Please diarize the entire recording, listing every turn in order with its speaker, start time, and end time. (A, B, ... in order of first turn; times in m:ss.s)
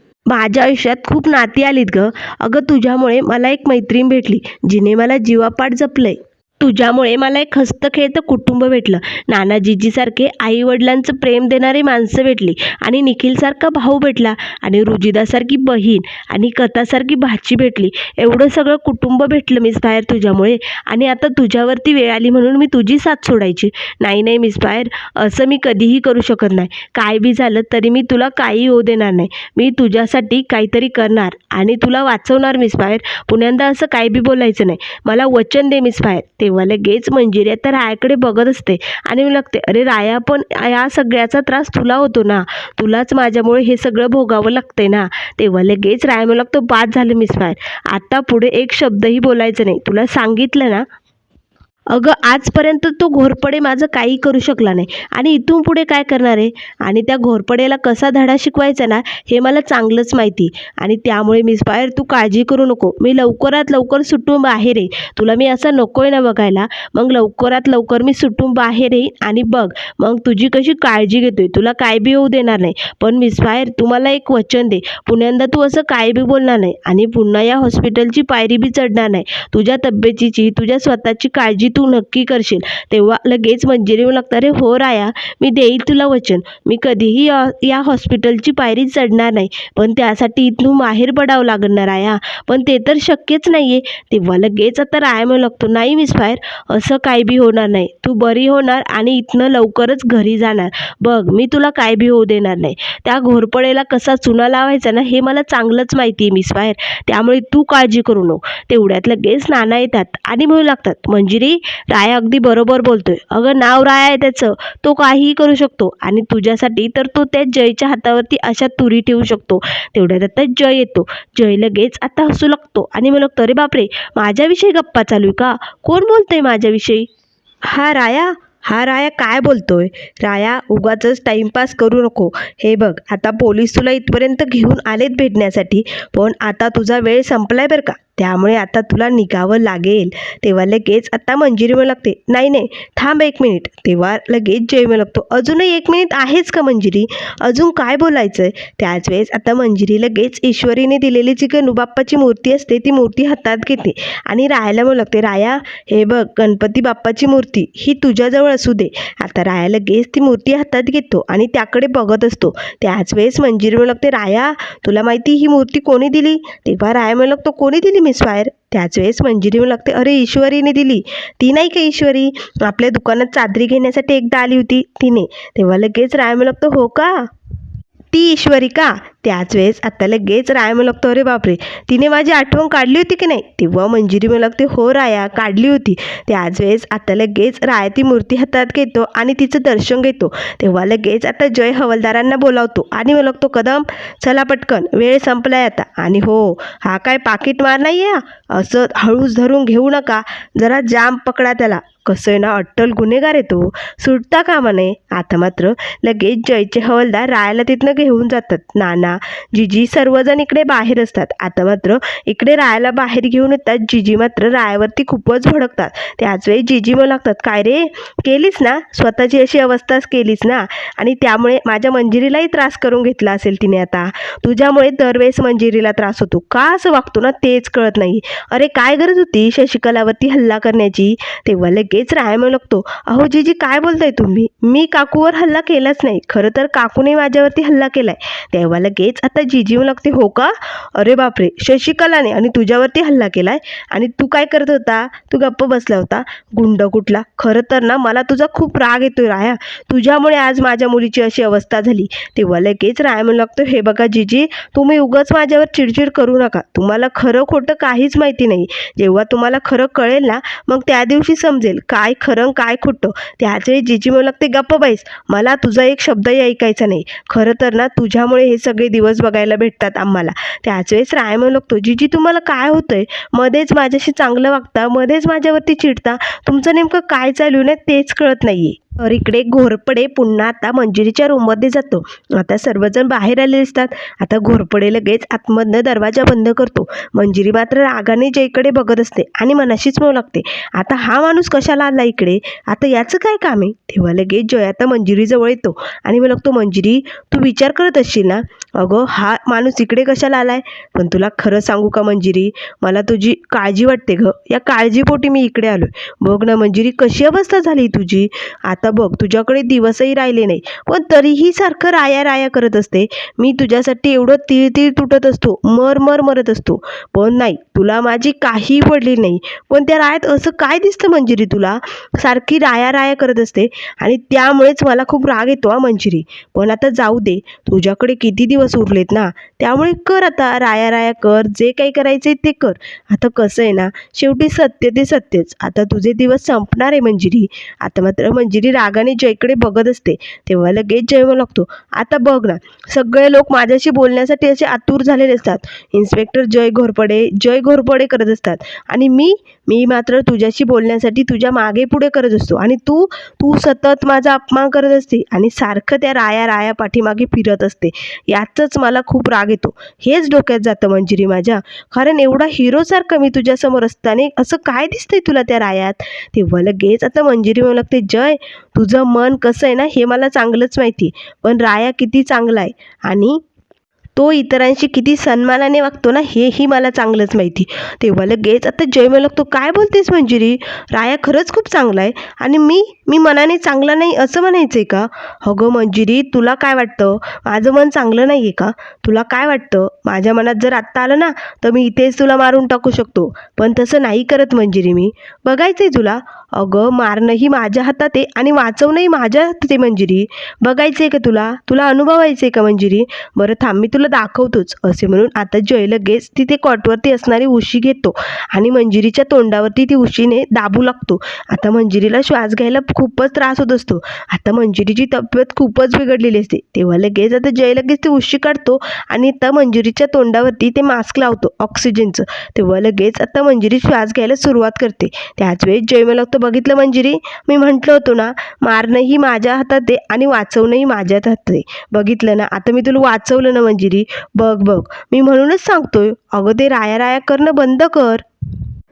0:00.3-0:50.9 A
0:51.9-2:07.1 A
2:07.6-2:57.3 A
2:58.1-6:13.4 A
6:14.2-7:18.2 A